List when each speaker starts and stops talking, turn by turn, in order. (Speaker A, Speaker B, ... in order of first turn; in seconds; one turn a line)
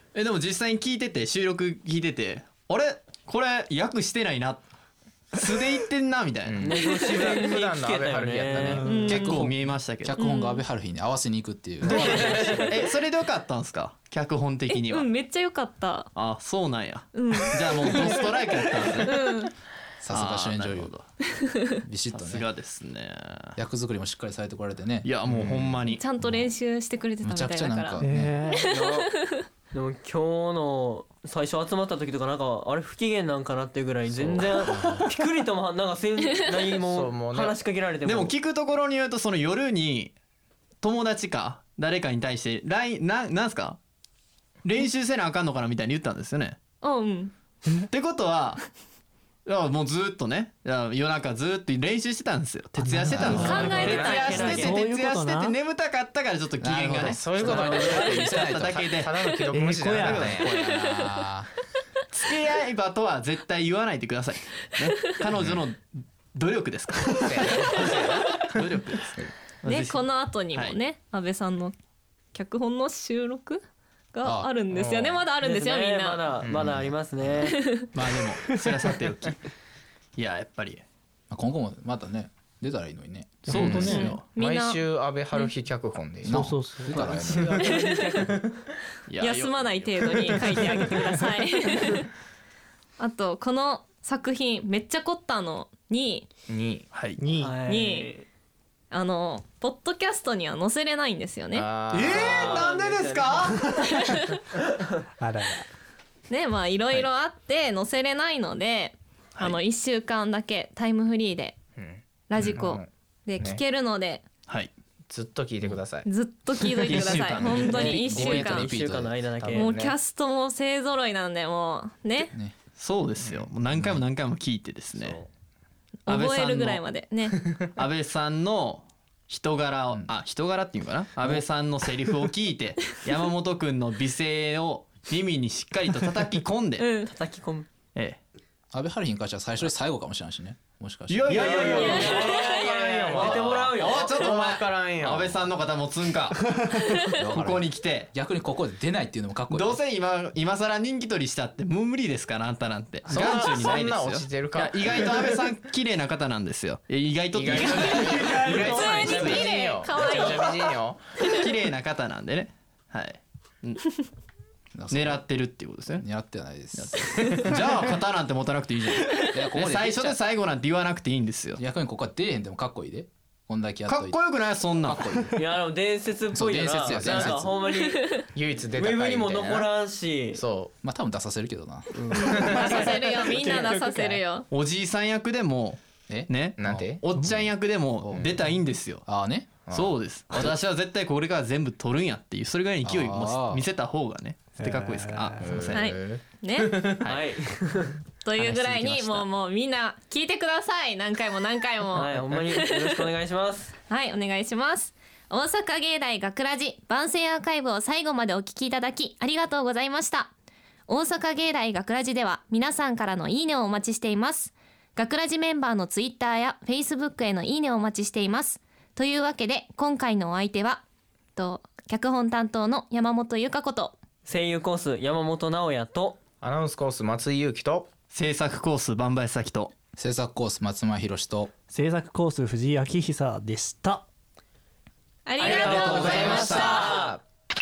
Speaker A: 0.1-4.6
Speaker A: 5.3-6.8
Speaker B: 6.5-8.9
Speaker C: 6.6-8.7
Speaker D: 8.6-9.2
Speaker E: 8.8-9.4
Speaker A: 9.1-10.2
Speaker F: 9.1-12.5
Speaker E: 10.2-10.6
Speaker E: 11.8-12.7
Speaker A: 11.9-15.1
Speaker B: 12.0-12.7
Speaker E: 14.7-16.1
Speaker A: 16.1-19.1
Speaker E: 17.1-18.3
Speaker E: 19.0-19.5
Speaker F: 20.0-20.9
Speaker A: 20.1-21.1
Speaker F: 21.8-22.4
Speaker A: 22.1-23.6
Speaker F: 23.6-26.5
Speaker A: 25.0-26.0
Speaker E: 25.9-29.4
Speaker F: 27.2-28.4
Speaker D: 28.0-28.7
Speaker C: 28.6-29.1
Speaker C: 29.7-38.3
Speaker F: 34.1-35.0
Speaker B: 36.8-37.6
Speaker A: 38.0-40.1
Speaker A: 40.8-43.8
Speaker A: 44.6-46.6
Speaker E: 46.8-47.3
Speaker A: 47.9-48.6
Speaker A: 49.5-59.3
Speaker D: 52.7-53.7
Speaker F: 53.1-53.7
Speaker B: 53.2-54.7
Speaker E: 53.3-54.7
Speaker C: 53.7-54.8
Speaker D: 54.4-55.5
Speaker F: 56.6-58.9
Speaker B: 56.9-60.5
Speaker C: 57.4-58.0
Speaker D: 59.5-60.4
Speaker A: 59.9-60.8
Speaker F: 60.3-61.5
Speaker E: 60.5-61.2
Speaker A: 62.1-70.8
Speaker B: 67.2-69.3
Speaker E: 69.6-71.7
Speaker E: 72.3-76.3
Speaker F: 74.2-74.5
Speaker C: 74.7-77.6
Speaker F: 76.4-77.5
Speaker E: 77.4-77.8
Speaker A: 77.9-79.4
Speaker A: 80.2-80.8
Speaker F: 81.3-84.1
Speaker A: 83.5-84.2
Speaker D: 83.5-84.2
Speaker B: 83.5-88.6
Speaker E: 83.8-84.8
Speaker F: 86.2-87.6
Speaker D: 86.2-88.1
Speaker E: 87.6-88.0
Speaker C: 87.7-88.3
Speaker A: 89.1-90.7
Speaker E: 89.2-92.1
Speaker E: 93.0-96.2
Speaker B: 96.5-96.8
Speaker A: 96.9-97.2
Speaker D: 97.2-97.6
Speaker C: 97.4-98.2
Speaker E: 97.6-98.1
Speaker E: 98.9-101.7
Speaker B: 101.5-102.7
Speaker A: 101.9-104.0
Speaker C: 102.0-103.5
Speaker E: 103.9-104.4
Speaker D: 105.2-105.7
Speaker E: 106.3-111.6
Speaker B: 111.8-112.9
Speaker E: 112.3-114.2
Speaker A: 114.5-114.7
Speaker B: 115.1-116.1
Speaker E: 116.0-118.7
Speaker A: 116.8-118.0
Speaker B: 117.2-117.7
Speaker F: 117.3-119.2
Speaker C: 117.7-119.6
Speaker B: 118.4-118.7
Speaker B: 119.4-120.0
Speaker E: 119.5-122.3
Speaker A: 122.8-125.2
Speaker F: 123.2-124.0
Speaker A: 126.1-126.8
Speaker E: 126.1-127.4
Speaker A: 127.7-136.9
Speaker E: 136.8-137.1
Speaker C: 137.0-137.7
Speaker A: 137.9-138.2
Speaker F: 138.7-141.5
Speaker A: 141.1-148.1
Speaker C: 141.2-144.1
Speaker B: 141.3-145.5
Speaker E: 141.7-142.6
Speaker F: 147.1-149.8
Speaker A: 149.5-159.3
Speaker B: 153.1-155.2
Speaker B: 157.3-161.0
Speaker E: 157.7-161.4
Speaker D: 158.6-158.9
Speaker A: 161.2-163.9
Speaker F: 164.7-165.2
Speaker A: 164.9-166.1
Speaker F: 166.0-167.2
Speaker A: 166.7-171.6
Speaker F: 169.2-170.2
Speaker F: 171.6-174.2
Speaker A: 173.9-175.1
Speaker F: 174.8-175.4
Speaker C: 175.3-178.2
Speaker F: 176.3-177.5
Speaker B: 177.0-177.5
Speaker E: 177.7-178.0
Speaker B: 178.3-179.7
Speaker C: 178.7-180.4
Speaker B: 180.3-180.7
Speaker F: 180.8-182.6
Speaker C: 181.9-184.1
Speaker E: 182.1-184.5
Speaker B: 182.3-182.7
Speaker A: 184.4-189.1
Speaker F: 186.1-187.4
Speaker B: 186.6-187.0
Speaker F: 188.0-188.3
Speaker F: 189.0-189.6
Speaker B: 189.7-190.4
Speaker A: 189.7-195.9
Speaker F: 192.8-193.7
Speaker D: 194.6-195.6
Speaker B: 195.4-197.1
Speaker E: 195.7-197.0
Speaker C: 197.0-198.0
Speaker E: 198.2-202.9
Speaker F: 198.4-199.2
Speaker C: 201.9-203.7
Speaker E: 203.9-210.3
Speaker E: 210.9-220.8
Speaker E: 221.3-223.9
Speaker C: 224.2-226.2
Speaker B: 226.4-227.9
Speaker A: 228.1-229.7
Speaker F: 229.9-231.5
Speaker D: 231.7-234.0
Speaker E: 235.2-236.9
Speaker B: 235.4-237.1
Speaker A: 235.4-237.0
Speaker F: 235.6-236.4